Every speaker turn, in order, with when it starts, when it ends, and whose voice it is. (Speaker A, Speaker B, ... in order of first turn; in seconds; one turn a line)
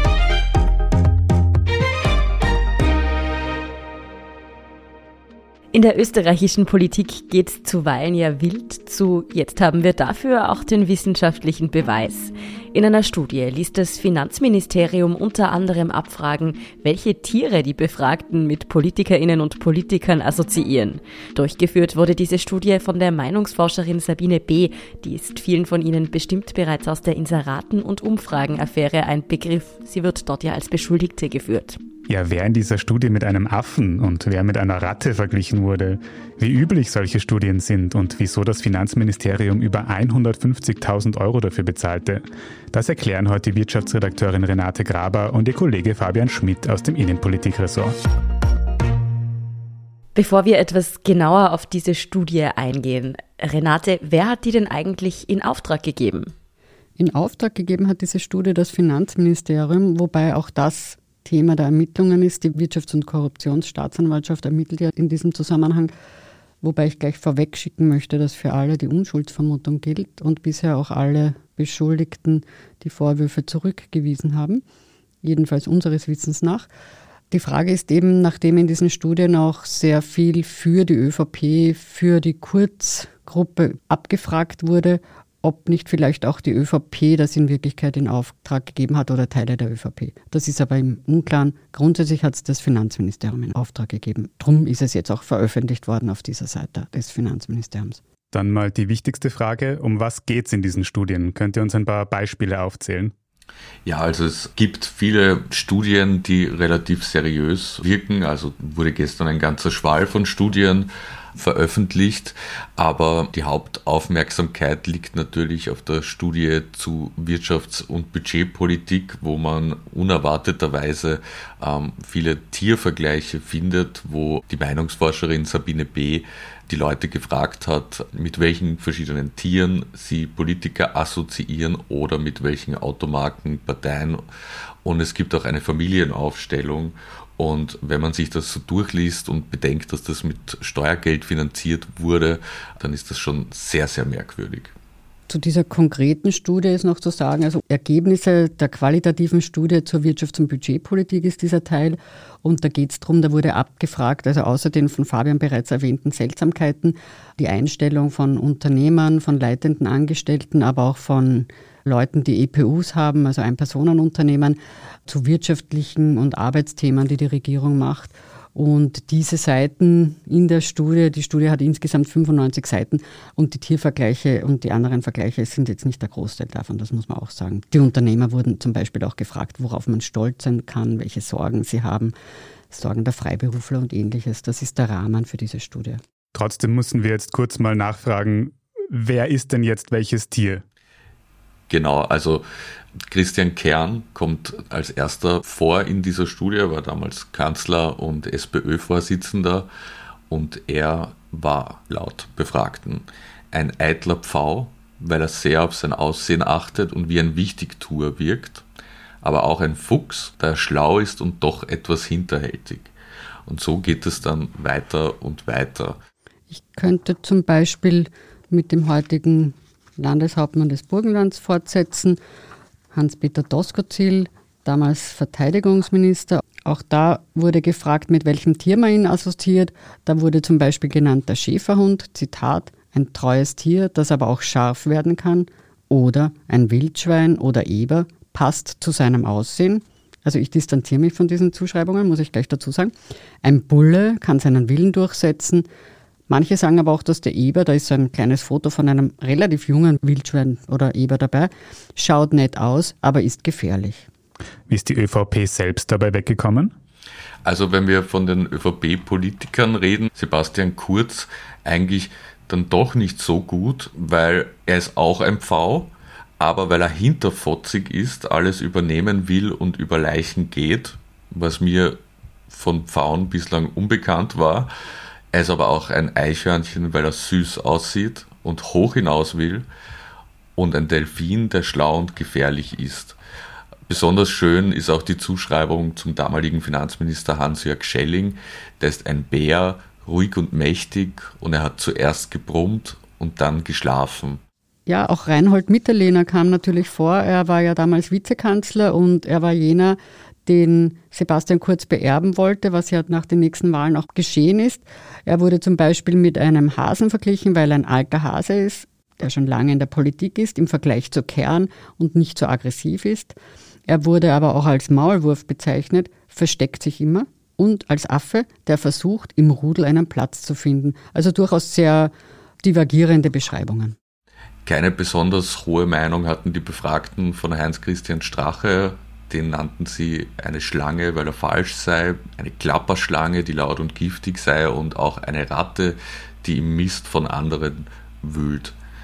Speaker A: 5.7-31.8
Speaker B: 32.1-48.0
Speaker A: 50.1-56.3
Speaker C: 57.0-65.9
Speaker C: 66.6-74.6
Speaker C: 75.2-76.7
Speaker C: 77.3-98.0
Speaker B: 98.3-103.1
Speaker D: 103.8-134.2
Speaker D: 134.8-144.7
Speaker C: 145.3-182.1
Speaker C: 182.7-186.0
Speaker B: 186.3-190.6
Speaker D: 191.7-192.4
Speaker D: 193.1-199.7
Speaker D: 200.3-208.6
Speaker D: 209.2-212.9
Speaker D: 213.4-216.0
Speaker C: 216.5-222.2
Speaker C: 222.9-245.7
Speaker C: 246.3-254.1
Speaker B: 254.7-256.7
Speaker D: 257.4-272.0
Speaker D: 272.5-274.7
Speaker D: 275.3-279.6
Speaker D: 280.6-283.2
Speaker D: 283.9-294.4
Speaker C: 294.9-322.1
Speaker C: 322.6-323.9
Speaker D: 324.6-338.8